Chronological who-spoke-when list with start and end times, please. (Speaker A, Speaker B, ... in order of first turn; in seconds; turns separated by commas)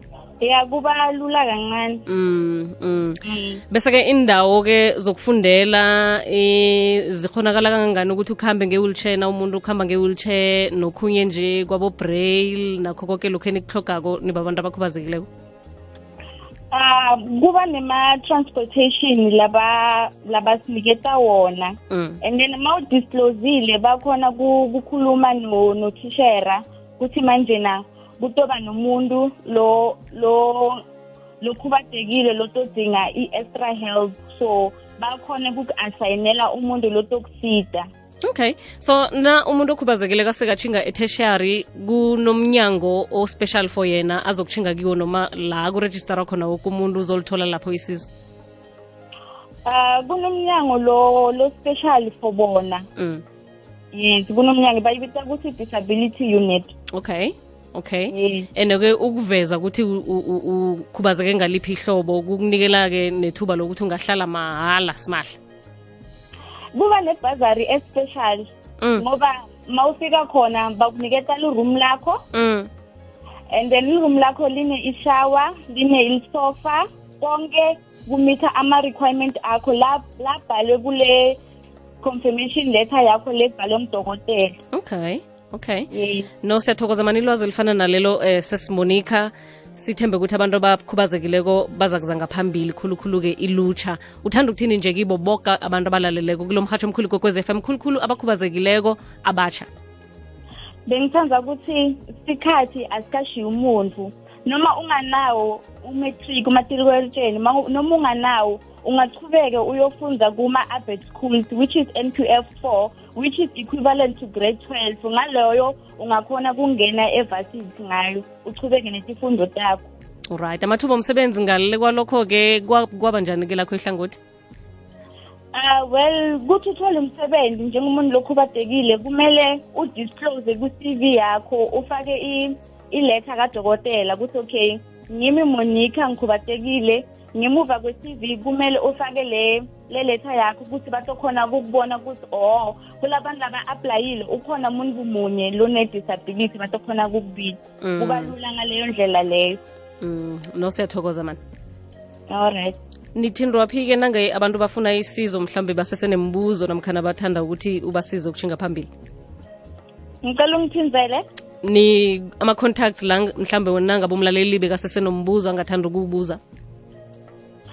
Speaker A: 0.4-2.0, Speaker B: 2.1-3.2, Speaker A: 3.2-3.6, Speaker B: 3.7-15.3, Speaker A: 16.7-30.8, Speaker B: 21.9-22.2, Speaker A: 31.4-37.9, Speaker B: 38.2-48.1, Speaker A: 49.6-52.8, Speaker B: 53.0-53.2, Speaker A: 53.9-56.7, Speaker B: 56.9-65.4, Speaker A: 58.1-58.5, Speaker A: 66.7-72.2, Speaker B: 68.8-69.0, Speaker B: 72.3-72.7, Speaker A: 73.5-81.4, Speaker A: 82.0-84.5, Speaker B: 84.7-85.9, Speaker A: 85.9-86.3, Speaker B: 86.4-99.7, Speaker A: 100.9-119.8, Speaker B: 120.3-124.2, Speaker A: 125.5-149.6, Speaker B: 147.8-148.3, Speaker B: 150.0-151.4, Speaker A: 152.3-152.8, Speaker B: 153.2-158.9, Speaker A: 160.2-161.2, Speaker B: 161.6-166.4